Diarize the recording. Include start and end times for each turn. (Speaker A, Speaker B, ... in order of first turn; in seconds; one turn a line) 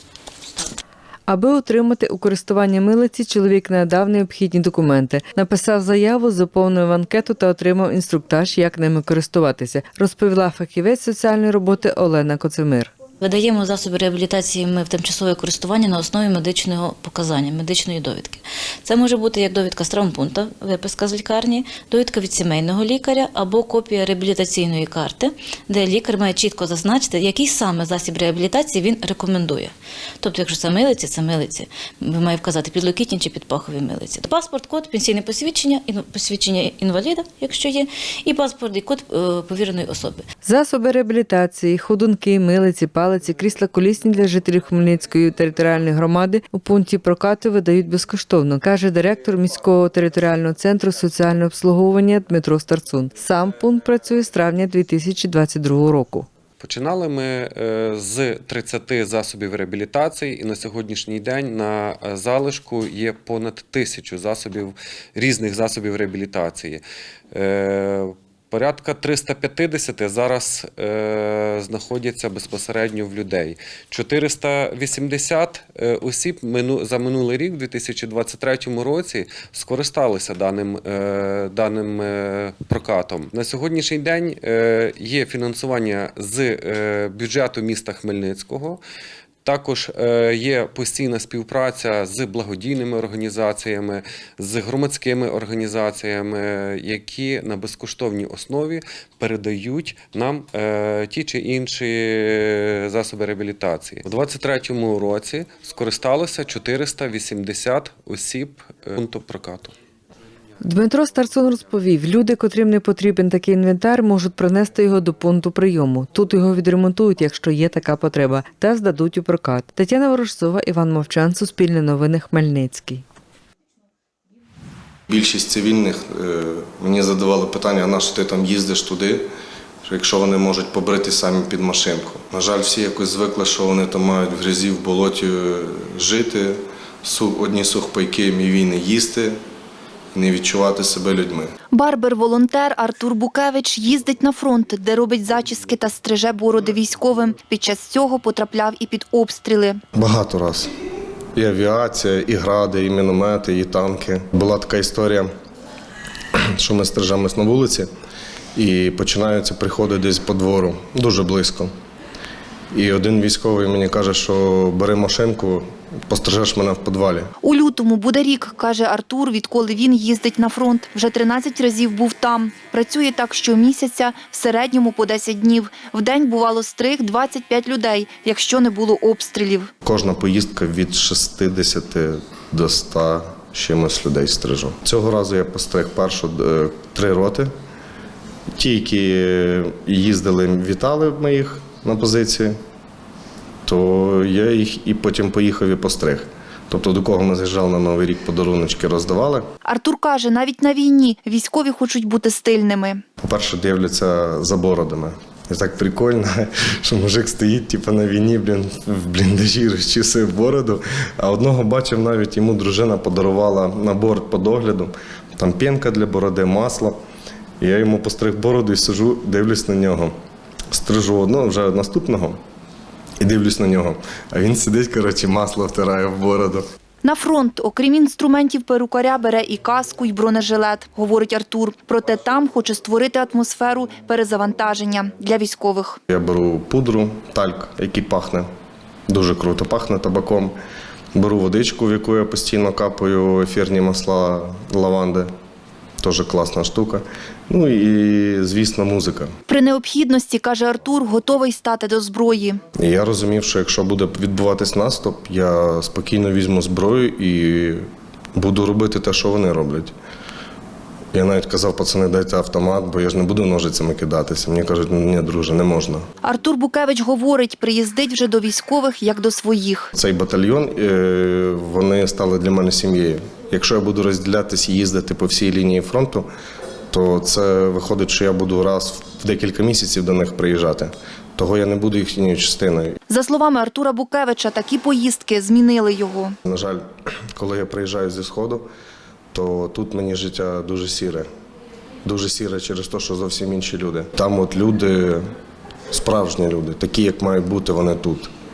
Speaker A: 0.5-0.8
Speaker B: 1.3-12.9
Speaker A: 13.2-40.2
Speaker B: 40.4-56.3
Speaker C: 56.6-66.8
Speaker C: 67.3-88.8
Speaker C: 89.5-109.7
Speaker B: 110.6-123.0
Speaker D: 125.1-129.2
Speaker D: 129.8-139.4
Speaker D: 140.1-141.5
Speaker E: 141.7-149.8
Speaker D: 149.9-150.7
Speaker D: 151.4-155.3
Speaker D: 156.3-157.9
Speaker D: 158.6-161.7
Speaker D: 162.7-167.3
Speaker E: 167.4-179.7
Speaker D: 179.8-187.5
Speaker D: 188.6-192.6
Speaker D: 193.7-199.5
Speaker E: 199.7-203.0
Speaker D: 203.2-217.0
Speaker D: 217.6-220.1
Speaker D: 220.7-222.4
Speaker D: 223.2-226.6
Speaker E: 227.0-236.0
Speaker D: 236.1-238.5
Speaker D: 239.1-240.6
Speaker D: 241.2-245.3
Speaker D: 246.0-249.3
Speaker E: 249.5-252.6
Speaker D: 252.8-259.9
Speaker D: 261.1-266.0
Speaker E: 266.2-269.9
Speaker D: 269.9-276.3
Speaker D: 276.9-283.0
Speaker E: 283.1-286.4
Speaker D: 286.5-286.8
Speaker D: 287.4-288.6
Speaker D: 289.3-291.3
Speaker D: 292.1-295.2
Speaker D: 295.9-298.3